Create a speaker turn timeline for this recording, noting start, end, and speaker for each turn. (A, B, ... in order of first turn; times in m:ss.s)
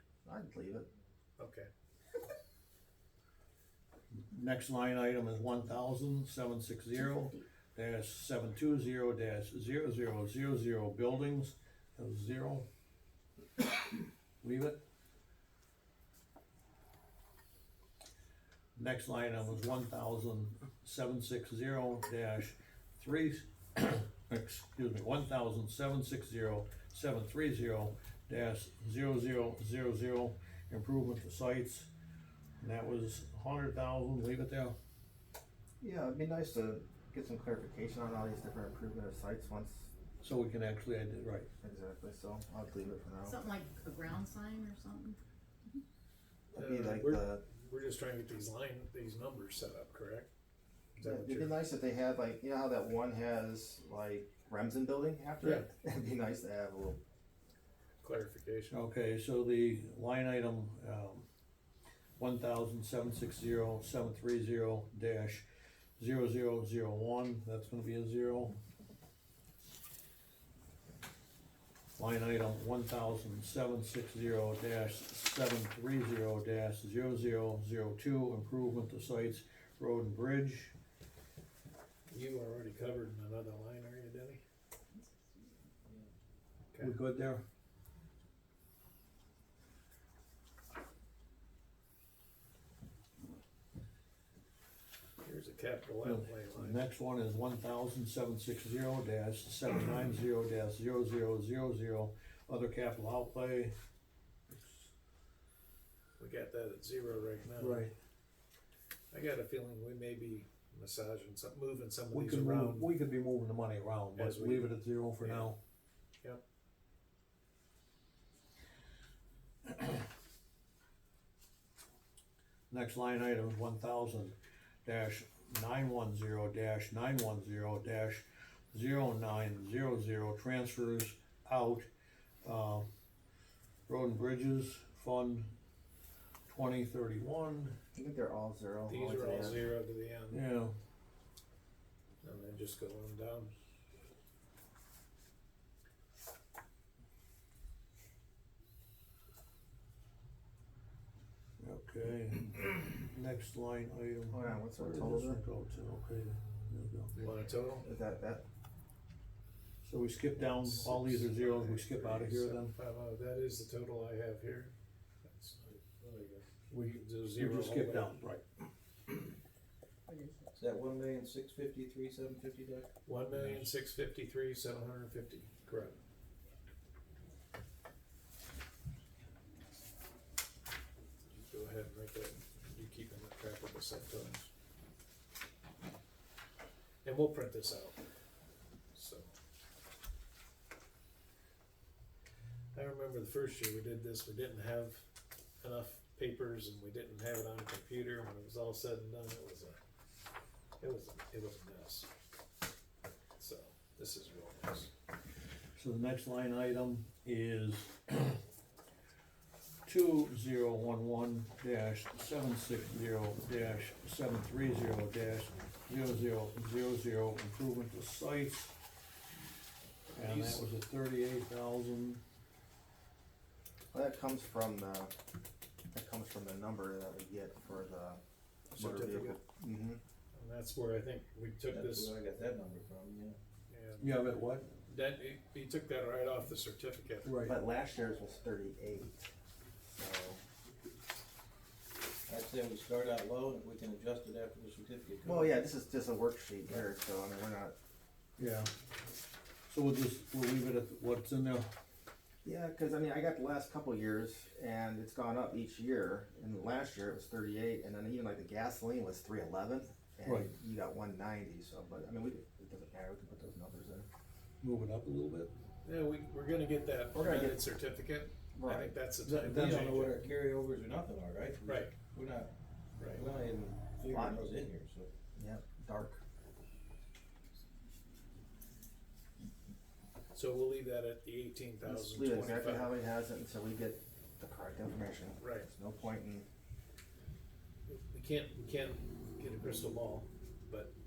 0:00.2-0:00.9 A
0:01.4-0:01.7 B
0:04.1-0:12.7 C
0:14.4-0:14.8 C
0:18.8-0:31.9 C
0:32.6-0:34.8 C
0:35.8-0:39.9 A
0:40.2-0:41.5 C
0:41.6-0:43.4 A
0:43.2-0:45.2 D
0:46.5-0:47.4 A
0:46.6-0:50.3 B
0:51.0-0:51.6 B
0:51.0-0:57.0 A
0:55.4-0:55.7 B
0:58.0-0:58.8 B
0:58.7-1:01.2 C
1:02.2-1:05.4 C
1:06.0-1:08.6 C
1:12.0-1:20.7 C
1:22.1-1:24.4 B
1:26.8-1:27.4 C
1:35.2-1:36.8 B
1:36.0-1:43.7 C
1:46.2-1:47.9 B
1:47.6-1:47.9 C
1:49.1-1:52.9 B
1:52.1-1:55.6 C
1:54.2-1:55.5 B
2:02.7-2:11.9 C
2:12.4-2:12.9 C
2:13.9-2:15.5 C
2:16.5-2:17.8 C
2:18.0-2:19.6 A
2:18.9-2:20.4 B
2:20.3-2:20.7 C
2:22.2-2:23.5 B
2:31.6-2:37.2 C
2:34.3-2:35.4 A
2:37.2-2:37.9 B
2:37.8-2:38.4 A
2:39.8-2:42.7 C
2:40.4-2:44.7 B
2:45.2-2:45.7 B
2:45.7-2:46.5 E
2:46.7-2:48.4 C
2:46.8-2:48.2 B
2:50.1-2:50.5 A
2:50.6-2:53.7 E
2:53.1-2:56.0 B
3:01.3-3:04.5 B
3:07.0-3:08.0 B
3:08.9-3:09.3 B
3:12.7-3:15.1 B
3:15.6-3:19.8 B
3:20.8-3:22.1 B
3:23.4-3:24.9 B
3:25.8-3:28.4 C
3:29.8-3:38.8 C
3:40.1-3:42.2 C
3:40.2-3:40.7 B
3:43.9-3:45.1 A
3:45.9-3:48.2 A
3:48.7-3:49.4 B
3:48.8-3:50.0 A
3:50.3-3:52.2 B
3:51.7-3:53.4 E
3:53.7-3:54.2 B
3:54.0-3:54.7 C
3:54.9-3:57.4 B
3:57.2-3:57.6 C
3:57.4-3:59.3 A
3:59.9-4:00.4 A
4:02.3-4:05.6 E
4:05.2-4:07.8 A
4:08.4-4:08.7 C
4:09.7-4:11.7 C
4:12.4-4:24.1 A
4:20.2-4:20.5 C
4:24.6-4:25.5 C
4:25.8-4:30.1 B
4:27.1-4:27.6 A
4:28.6-4:28.9 A
4:29.3-4:32.5 E
4:29.3-4:30.2 C
4:31.7-4:31.9 B
4:33.0-4:33.3 B
4:33.1-4:35.1 E
4:34.0-4:34.5 A
4:35.4-4:36.2 A
4:40.3-4:43.0 B
4:41.8-4:46.5 A
4:45.4-4:45.7 B
4:47.9-4:50.9 B